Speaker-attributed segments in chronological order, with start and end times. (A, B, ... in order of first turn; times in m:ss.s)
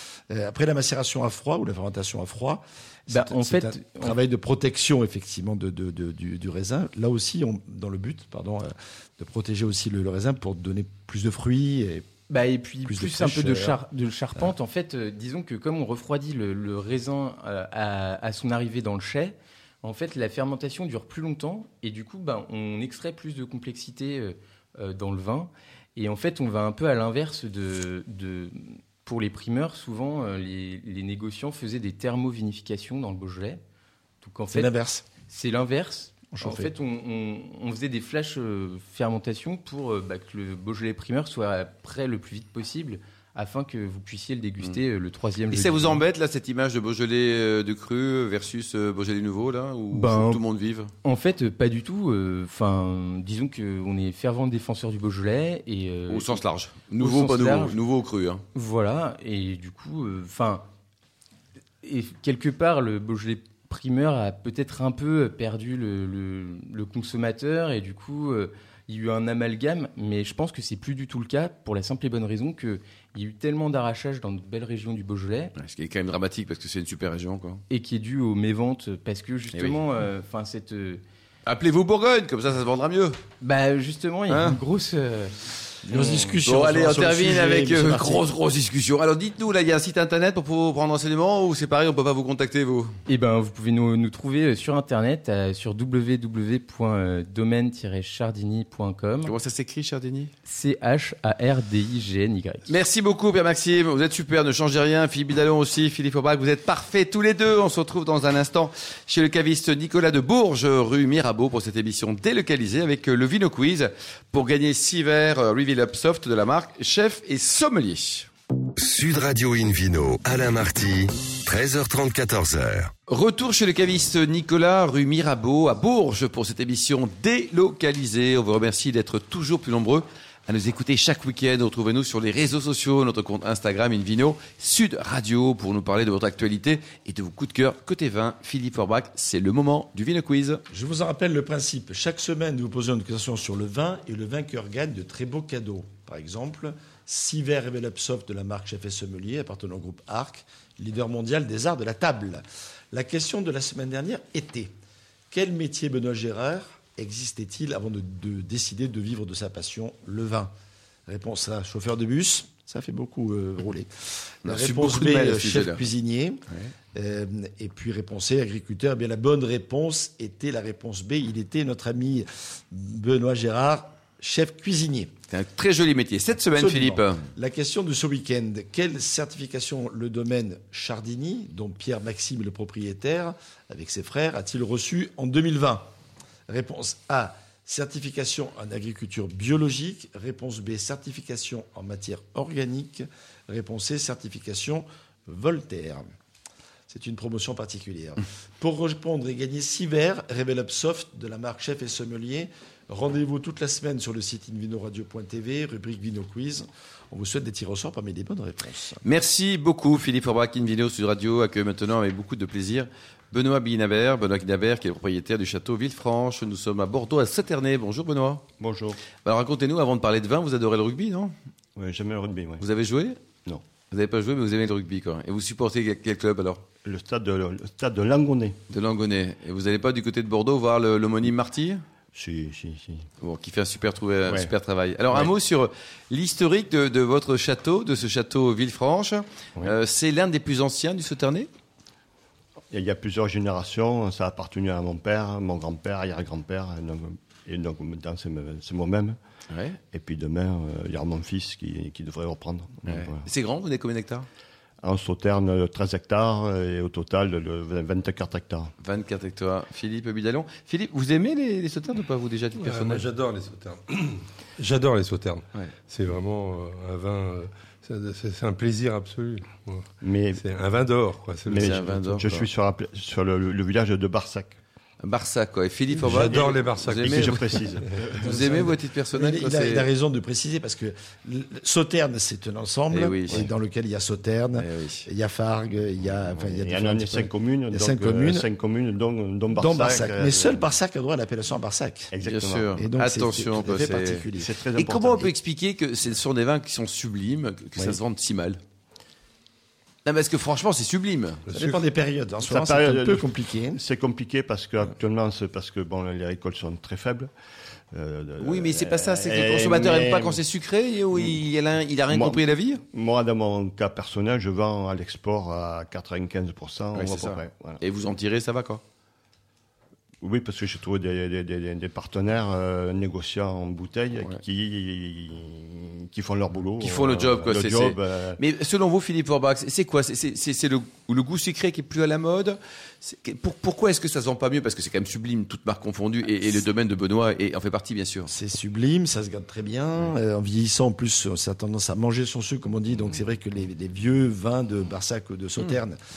0:00.3-0:12.1 A
0:03.1-0:04.2 B
0:12.3-0:33.6 B
0:12.8-0:13.8 A
0:34.2-0:34.7 B
0:34.5-0:35.1 A
0:35.2-0:46.0 B
0:36.3-0:36.7 A
0:45.5-0:50.9 C
0:49.9-0:50.4 B
0:51.0-0:56.4 B
0:56.1-0:58.4 C
0:57.0-0:57.8 B
0:58.6-1:00.6 B
1:01.8-1:15.5 B
1:15.6-1:17.6 C
1:17.7-1:21.0 B
1:21.5-1:23.2 C
1:23.4-1:26.4 B
1:24.3-1:24.6 C
1:25.8-1:28.2 A
1:26.4-1:33.0 C
1:33.1-1:39.3 B
1:39.2-1:40.3 C
1:40.4-1:42.7 B
1:42.7-1:58.3 C
1:58.8-2:02.9 D
2:03.1-2:20.6 C
2:20.7-2:34.7 A
2:35.3-2:40.5 A
2:41.1-2:55.1 A
2:44.4-2:45.8 C
2:55.3-2:57.3 C
2:56.6-3:05.9 A
3:06.5-3:16.0 A
3:16.9-3:29.0 A
3:29.0-3:38.4 C
3:38.6-3:39.0 E
3:39.2-3:41.3 C
3:41.8-3:42.6 E
3:42.6-3:43.2 C
3:43.9-3:46.6 C
3:46.8-3:48.6 E
3:48.7-3:51.8 C
3:52.2-3:53.1 E
3:53.2-4:01.5 C
4:02.7-4:09.2 E
4:09.5-4:09.8 C
4:09.8-4:13.3 E
4:12.9-4:14.3 C
4:14.8-4:18.7 E
4:18.8-4:23.1 C
4:22.6-4:31.8 F
4:30.0-4:30.4 E
4:31.5-4:34.6 E
4:31.6-4:32.5 C
4:35.0-4:37.6 C
4:36.0-4:37.7 F
4:36.0-4:38.7 E
4:38.2-4:39.9 C
4:38.2-4:48.5 A
4:42.9-4:43.5 C
4:44.6-4:45.1 C
4:46.4-4:50.6 E
4:49.5-4:52.1 A
4:52.1-4:52.8 E
4:52.2-4:58.6 C
4:52.7-4:54.6 A
4:54.4-4:55.3 E
5:00.0-5:01.4 C
5:01.5-5:03.8 A
5:02.4-5:07.3 E
5:07.9-5:10.4 E
5:08.4-5:12.8 C
5:11.1-5:11.4 E
5:12.1-5:17.8 E
5:16.9-5:18.8 C
5:20.2-5:28.4 E
5:26.8-5:38.3 C
5:38.3-5:46.0 A